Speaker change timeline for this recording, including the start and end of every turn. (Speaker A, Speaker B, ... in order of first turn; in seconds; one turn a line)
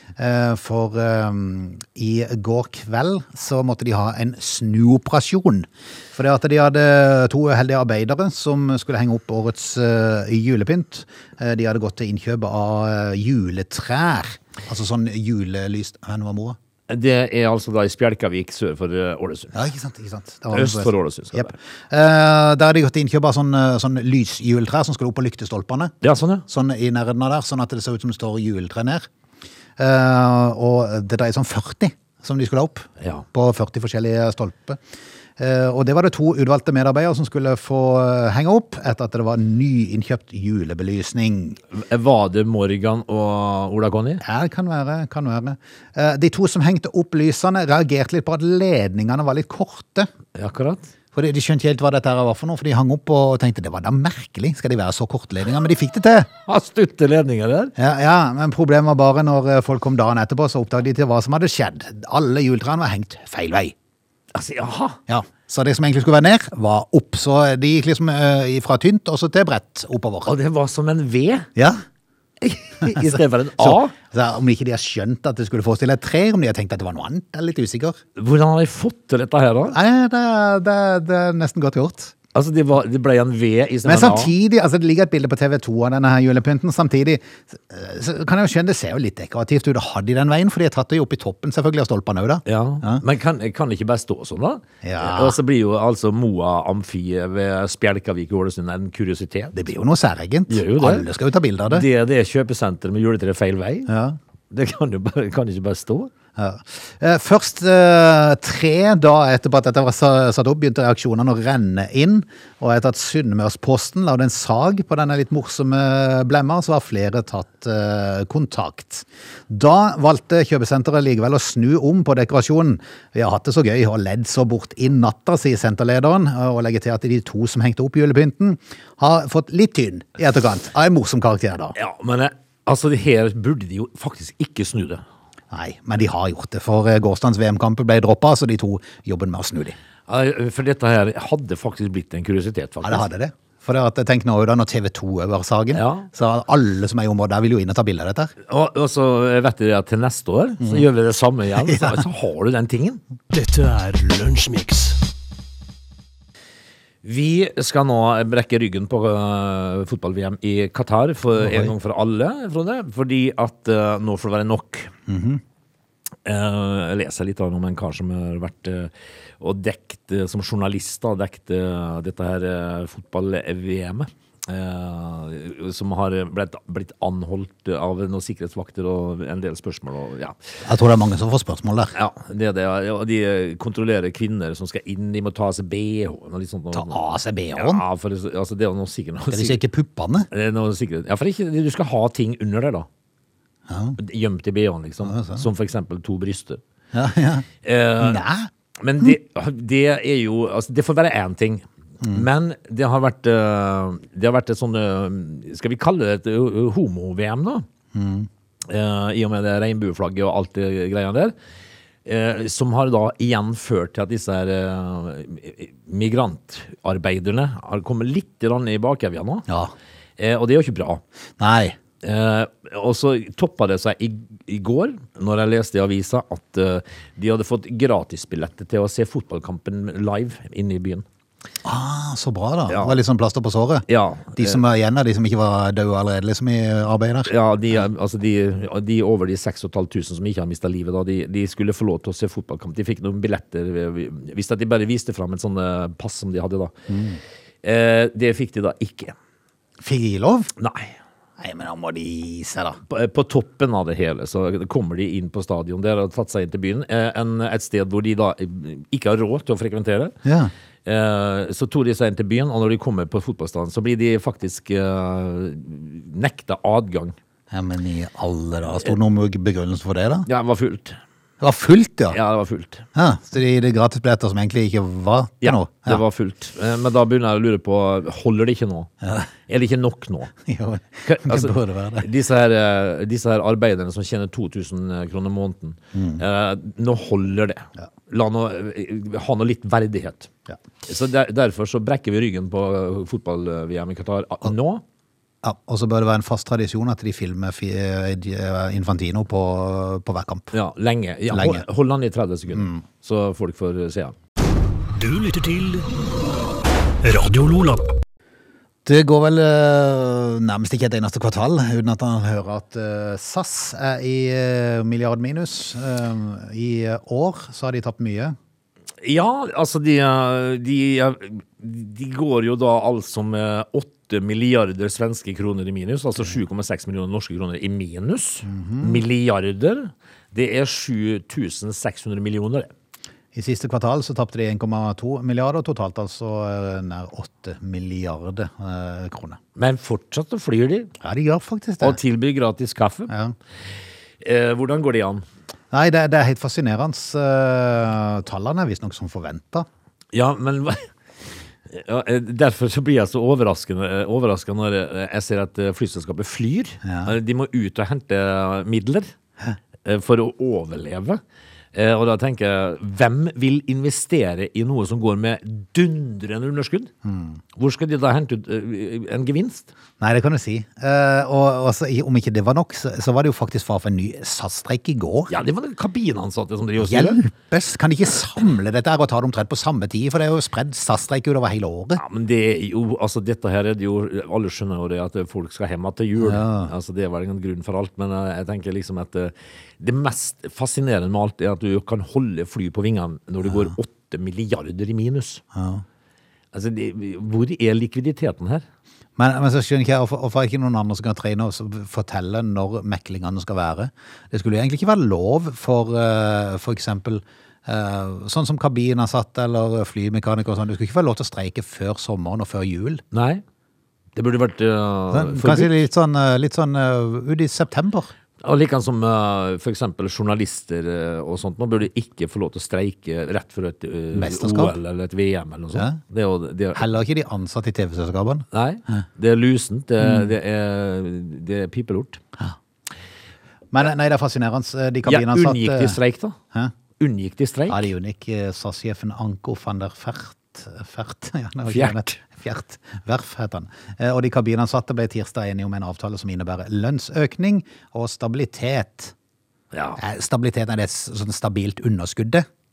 Speaker A: 0.2-16.6
Speaker B: 16.9-19.6
Speaker A: 19.5-25.9
Speaker B: 20.5-21.5
Speaker B: 26.0-26.4
Speaker A: 26.5-29.1
Speaker A: 29.8-34.8
Speaker A: 35.4-41.6
Speaker B: 41.7-44.2
Speaker A: 44.2-50.1
Speaker B: 50.4-50.9
Speaker A: 51.1-56.3
Speaker B: 56.5-57.7
Speaker A: 57.8-63.7
Speaker B: 64.3-65.0
Speaker A: 65.1-70.3
Speaker B: 70.3-71.5
Speaker A: 71.6-71.8
Speaker B: 72.4-73.9
Speaker A: 72.9-78.0
Speaker B: 78.2-79.8
Speaker A: 79.7-82.2
Speaker B: 82.3-84.3
Speaker A: 83.9-93.0
Speaker B: 92.5-99.5
Speaker A: 94.8-95.4
Speaker A: 99.5-101.8
Speaker B: 100.5-101.1
Speaker B: 101.7-103.9
Speaker A: 103.9-104.2
Speaker B: 104.5-106.1
Speaker A: 106.4-131.8
Speaker B: 131.8-135.0
Speaker A: 135.5-139.8
Speaker B: 140.1-143.1
Speaker A: 142.8-148.3
Speaker B: 145.7-146.1
Speaker B: 148.5-153.0
Speaker A: 151.6-152.0
Speaker C: 153.3-155.0
Speaker B: 157.0-164.9
Speaker A: 161.4-161.7
Speaker A: 165.1-165.4
Speaker B: 166.2-180.4
Speaker A: 180.6-182.0
Speaker B: 181.9-187.0
Speaker A: 186.7-187.8
Speaker B: 187.6-189.6
Speaker A: 189.3-190.3
Speaker B: 190.3-192.9
Speaker A: 193.7-194.0
Speaker B: 194.0-196.6
Speaker A: 195.0-195.4
Speaker A: 196.9-197.5
Speaker B: 197.6-198.2
Speaker A: 198.0-198.5
Speaker B: 198.8-207.7
Speaker A: 207.9-208.3
Speaker B: 208.7-211.3
Speaker B: 212.1-219.5
Speaker A: 219.5-219.7
Speaker B: 220.2-221.0
Speaker A: 221.4-221.8
Speaker B: 222.0-231.0
Speaker A: 231.7-237.3
Speaker B: 232.7-233.0
Speaker B: 233.9-234.6
Speaker B: 237.3-246.7
Speaker A: 246.9-247.2
Speaker B: 247.6-249.1
Speaker A: 249.8-250.5
Speaker B: 250.6-251.0
Speaker A: 251.4-252.8
Speaker B: 252.9-260.2
Speaker A: 260.2-260.5
Speaker B: 260.9-267.2
Speaker A: 267.5-270.3
Speaker B: 270.3-271.0
Speaker A: 271.4-272.2
Speaker B: 272.1-272.8
Speaker A: 272.9-276.0
Speaker B: 275.4-278.9
Speaker A: 279.0-279.3
Speaker B: 279.5-280.3
Speaker A: 280.4-282.1
Speaker B: 281.1-290.3
Speaker A: 285.9-286.2
Speaker B: 290.9-294.8
Speaker A: 295.4-300.5
Speaker B: 300.5-304.1
Speaker A: 301.3-301.6
Speaker A: 302.5-302.8
Speaker C: 304.9-305.9
Speaker C: 307.0-307.9
Speaker A: 308.9-318.4
Speaker B: 319.0-332.7
Speaker A: 328.4-329.0
Speaker A: 333.3-339.4
Speaker B: 339.6-340.9
Speaker A: 341.0-342.0
Speaker B: 341.8-343.1
Speaker A: 343.1-343.4
Speaker B: 344.2-345.2
Speaker A: 345.7-349.7
Speaker B: 350.1-350.9
Speaker B: 351.7-359.1
Speaker A: 356.8-357.1
Speaker B: 359.8-361.2
Speaker B: 361.7-366.9
Speaker A: 367.1-367.4
Speaker B: 367.6-369.7
Speaker A: 370.0-375.3
Speaker B: 375.3-377.2
Speaker A: 376.8-382.0
Speaker B: 382.0-395.4
Speaker A: 386.2-386.7
Speaker A: 393.4-393.7
Speaker A: 395.5-395.8
Speaker B: 396.5-398.6
Speaker A: 399.2-413.0
Speaker B: 413.1-413.4
Speaker B: 414.1-415.8
Speaker A: 415.1-418.1
Speaker B: 418.4-426.9
Speaker A: 424.1-424.8
Speaker A: 426.8-429.0
Speaker B: 428.5-432.2
Speaker A: 430.0-430.3
Speaker A: 433.7-436.0
Speaker B: 435.1-436.4
Speaker B: 437.0-437.9
Speaker A: 437.7-449.1
Speaker B: 441.7-442.1
Speaker B: 449.7-450.0
Speaker A: 450.0-452.5